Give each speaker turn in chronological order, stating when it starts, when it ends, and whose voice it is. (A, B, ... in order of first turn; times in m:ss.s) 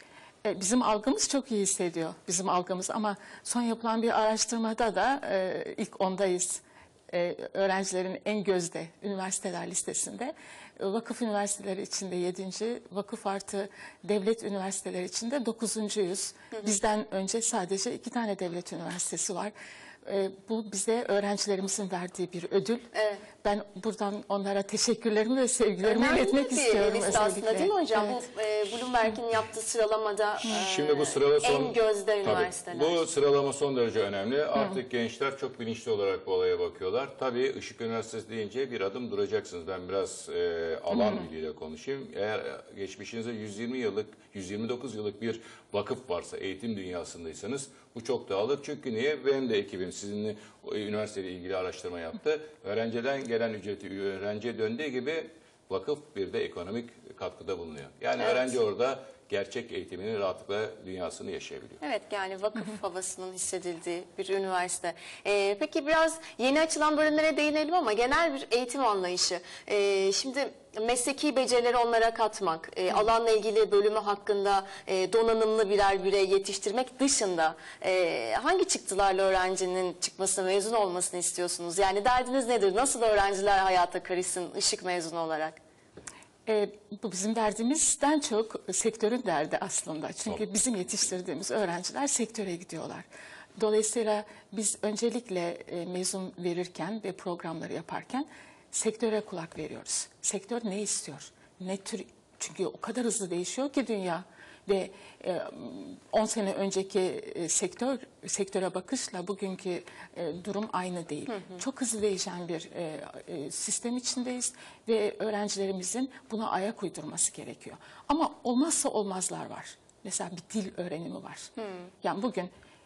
0:00.4-0:19.5 A
0:20.0-0:22.9 A
0:22.9-0:23.2 B
0:23.4-0:28.2 A
0:25.8-0:33.0 B
0:30.4-1:01.8 C
0:40.9-0:41.2 A
0:58.2-0:58.5 B
1:01.8-1:25.6 B
1:26.4-2:01.5 A
2:01.6-2:01.9 B
2:02.0-2:02.5 A